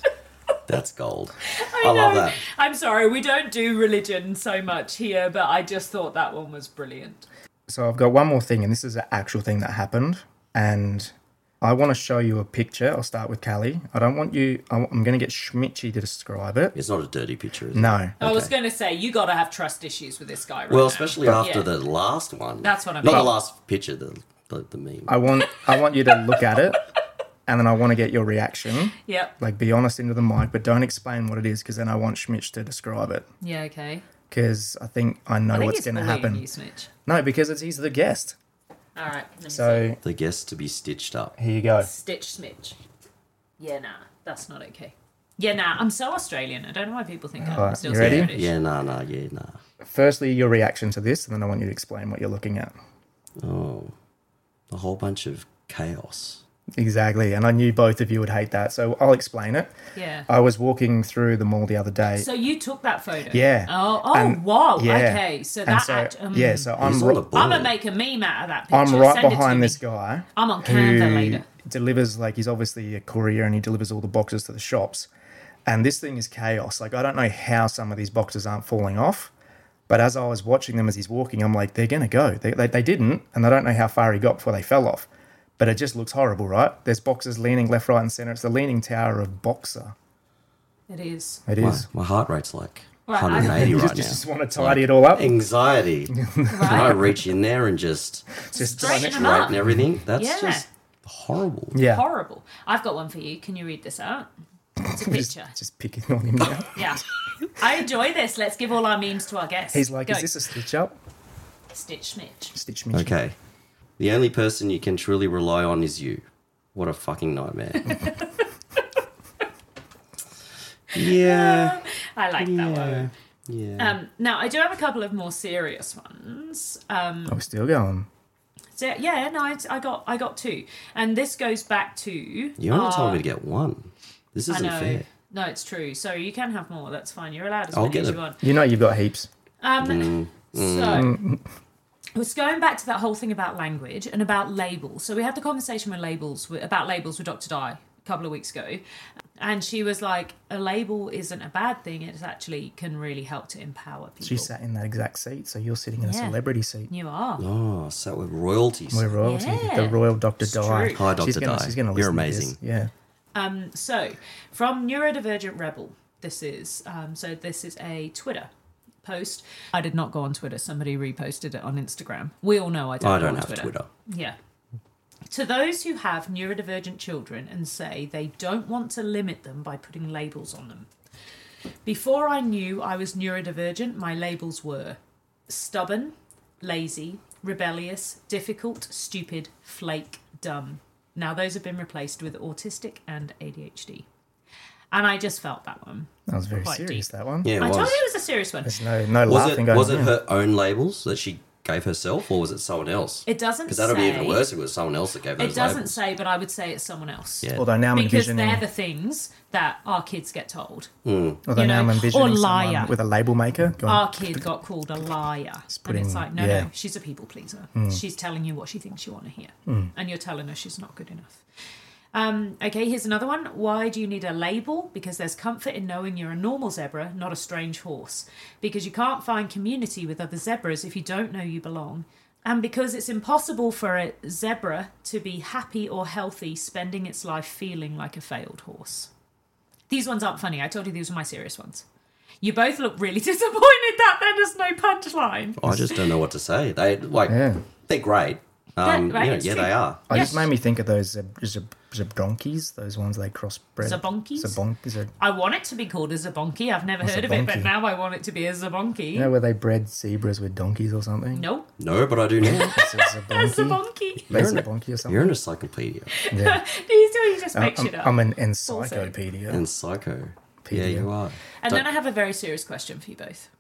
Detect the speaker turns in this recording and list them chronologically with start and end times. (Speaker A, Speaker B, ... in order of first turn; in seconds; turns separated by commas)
Speaker A: 0.7-2.4, Speaker B: 1.5-7.3, Speaker C: 7.7-16.8, Speaker A: 16.8-18.5, Speaker C: 17.7-18.1, Speaker B: 18.2-21.7, Speaker A: 20.7-25.2, Speaker B: 22.6-23.3, Speaker C: 25.1-26.8, Speaker C: 27.5-33.3, Speaker B: 29.0-29.4, Speaker B: 33.4-34.0, Speaker C: 34.3-36.5, Speaker B: 35.5-36.9, Speaker C: 37.1-38.4, Speaker B: 39.0-39.9, Speaker C: 39.5-40.0, Speaker A: 40.0-41.4, Speaker C: 41.4-41.9, Speaker B: 41.8-42.8, Speaker B: 43.6-48.5, Speaker C: 47.4-48.3, Speaker A: 47.9-49.6, Speaker C: 49.8-52.8, Speaker A: 53.4-53.9, Speaker A: 54.7-56.4, Speaker C: 56.8-59.7, Speaker B: 60.0-60.3, Speaker C: 60.3-62.3, Speaker B: 62.2-66.7, Speaker C: 63.3-67.3, Speaker A: 66.8-67.7, Speaker B: 67.3-69.8, Speaker C: 68.7-75.1, Speaker B: 70.3-71.5, Speaker C: 75.7-79.3, Speaker C: 79.9-85.1, Speaker C: 85.6-90.0, Speaker B: 90.9-91.4, Speaker C: 91.5-91.9, Speaker A: 91.6-101.8, Speaker B: 93.1-93.7, Speaker C: 93.3-95.4, Speaker C: 96.1-97.2, Speaker B: 96.5-97.0, Speaker C: 98.5-99.8, Speaker B: 98.5-99.6, Speaker B: 100.1-100.7, Speaker C: 101.7-102.0, Speaker B: 101.8-104.3, Speaker C: 104.8-106.8, Speaker B: 104.9-105.5, Speaker B: 106.7-110.3, Speaker C: 109.7-110.9, Speaker B: 111.7-112.5, Speaker C: 112.5-113.2, Speaker A: 112.9-113.3, Speaker A: 114.0-118.0, Speaker B: 117.8-118.5, Speaker A: 120.9-121.8, Speaker B: 121.0-123.1, Speaker A: 122.4-124.0, Speaker B: 123.8-127.4, Speaker C: 127.3-128.1, Speaker B: 128.8-133.2, Speaker A: 132.6-135.1, Speaker B: 134.5-138.4, Speaker A: 137.7-138.2, Speaker C: 138.4-139.3, Speaker B: 139.6-141.2, Speaker A: 139.8-141.1, Speaker C: 140.9-141.4, Speaker B: 142.2-148.8, Speaker B: 149.4-154.5, Speaker C: 154.2-156.9, Speaker B: 156.0-157.4, Speaker A: 157.4-159.1, Speaker C: 158.9-162.9, Speaker B: 159.2-161.1, Speaker A: 160.9-162.6, Speaker B: 163.3-168.5, Speaker B: 169.0-174.4, Speaker A: 173.0-173.9, Speaker B: 175.3-180.9, Speaker B: 181.8-194.1, Speaker B: 194.9-198.8, Speaker C: 196.3-197.5, Speaker A: 197.4-198.0, Speaker C: 198.7-200.1, Speaker A: 199.3-206.0, Speaker B: 203.3-204.4, Speaker B: 205.4-210.9, Speaker C: 207.6-208.7, Speaker A: 211.1-211.4, Speaker C: 211.4-214.4, Speaker B: 211.5-212.9, Speaker B: 213.8-221.4, Speaker C: 215.7-216.7, Speaker C: 217.8-218.0, Speaker C: 219.7-219.9, Speaker B: 222.1-239.1, Speaker B: 239.9-241.8, Speaker B: 242.4-246.0, Speaker A: 245.6-250.3, Speaker C: 247.3-247.6, Speaker B: 248.8-250.5, Speaker C: 250.1-255.1, Speaker B: 253.8-254.6, Speaker B: 255.2-259.3, Speaker C: 257.0-257.7, Speaker C: 259.1-261.5, Speaker B: 261.3-261.7, Speaker A: 261.8-262.8, Speaker C: 262.4-265.3, Speaker B: 262.5-264.4, Speaker A: 264.3-266.2, Speaker B: 266.1-269.1, Speaker C: 266.3-266.6, Speaker C: 267.5-269.6, Speaker A: 269.5-271.9, Speaker C: 270.6-271.1, Speaker B: 271.6-273.5